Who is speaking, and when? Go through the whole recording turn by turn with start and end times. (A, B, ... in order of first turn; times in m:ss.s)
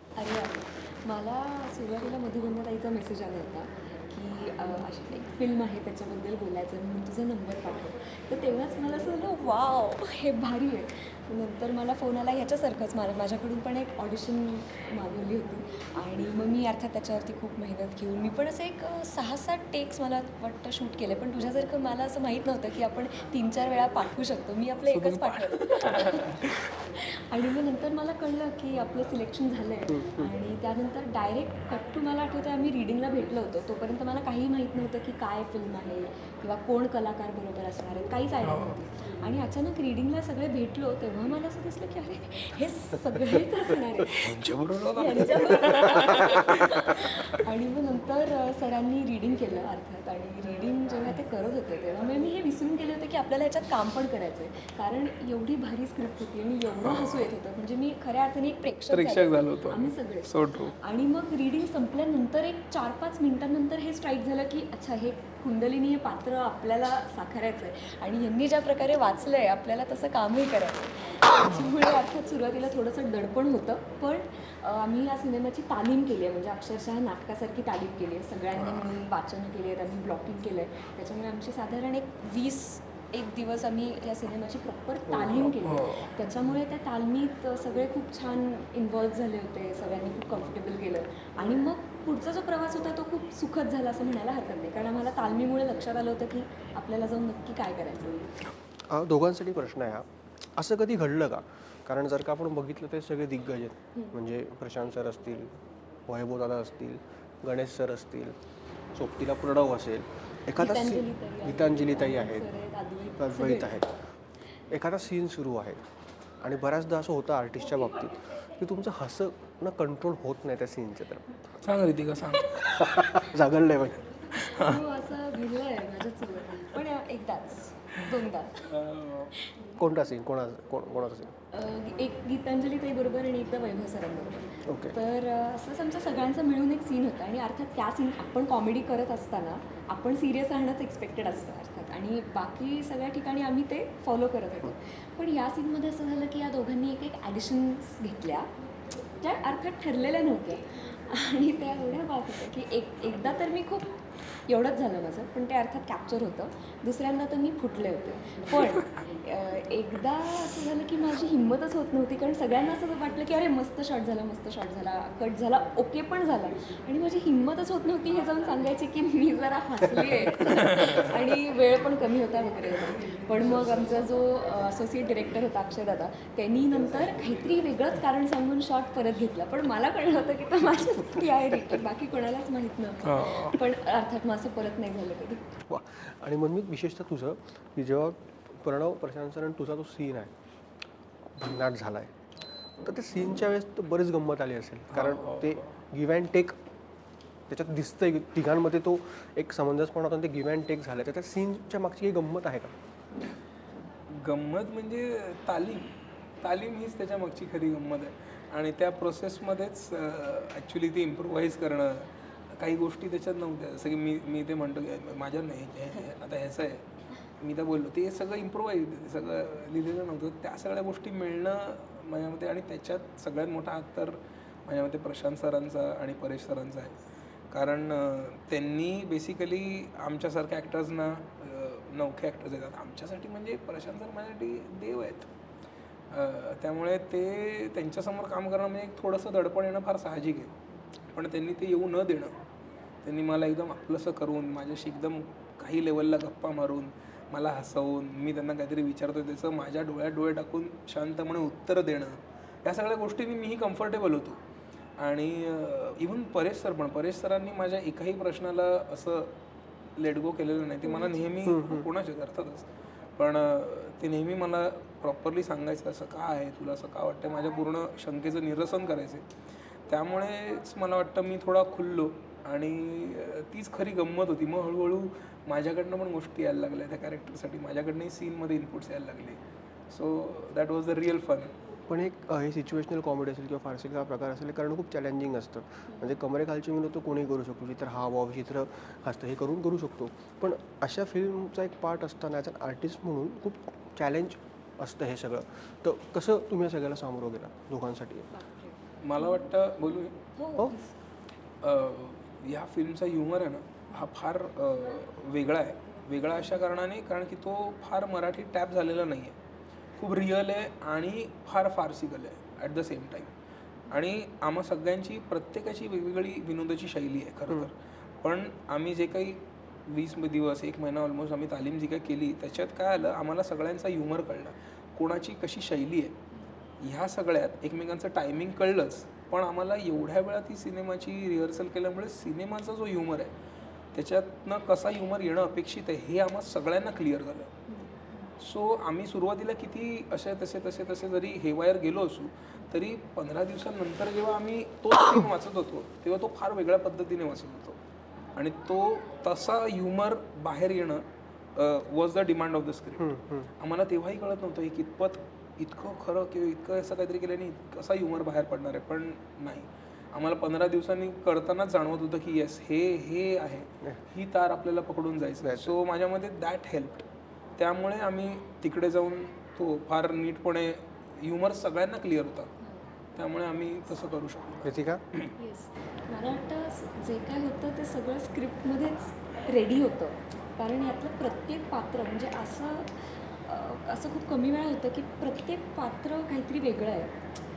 0:00.2-0:44.2 A
0:24.8-0:26.7 B
0:29.9-0:30.3 C
0:38.4-0:38.8 B
0:44.1-0:47.4 B
0:45.0-1:38.3 A
0:56.8-0:57.3 B
0:58.9-1:00.8 B
1:11.4-1:11.7 B
1:18.6-1:18.9 B
1:25.1-1:25.5 C
1:25.6-1:26.1 B
1:38.9-1:45.5 C
1:46.1-1:48.4 C
1:49.0-1:52.5 C
1:50.6-1:53.9 A
1:53.2-1:53.9 C
1:54.7-1:55.8 C
1:56.4-2:01.5 C
2:01.6-2:02.7 B
2:02.5-2:04.1 C
2:04.3-2:04.8 B
2:04.5-2:09.7 A
2:08.6-2:09.3 B
2:09.8-2:11.3 C
2:11.5-2:28.5 A
2:14.7-2:15.0 C
2:29.2-3:05.5 A
3:03.0-3:03.6 B
3:05.7-3:10.3 C
3:11.4-3:12.1 C
3:12.8-3:16.6 C
3:14.9-3:15.8 B
3:17.5-3:22.7 C
3:24.1-3:36.8 B
3:37.4-3:47.0 B
3:47.5-3:55.3 B
3:56.1-4:00.5 B
4:01.1-4:02.4 B
4:03.0-4:14.4 B
4:15.0-4:19.3 B
4:20.0-4:29.2 B
4:20.9-4:21.5 A
4:21.5-4:21.9 C
4:29.9-4:41.5 B
4:41.9-4:58.3 C
4:58.3-4:58.8 A
4:59.0-5:00.2 B
5:00.4-5:00.9 A
5:01.6-5:09.4 B
5:10.0-5:13.3 B
5:13.9-5:26.2 B
5:26.8-5:33.3 B
5:33.9-5:37.5 B
5:37.7-5:38.3 A
5:38.4-5:47.8 B
5:48.4-6:07.1 B
5:53.0-5:53.5 C
6:05.4-6:05.8 C
6:07.6-6:12.5 B
6:13.2-6:15.3 B
6:14.6-6:15.0 C
6:15.4-6:27.1 A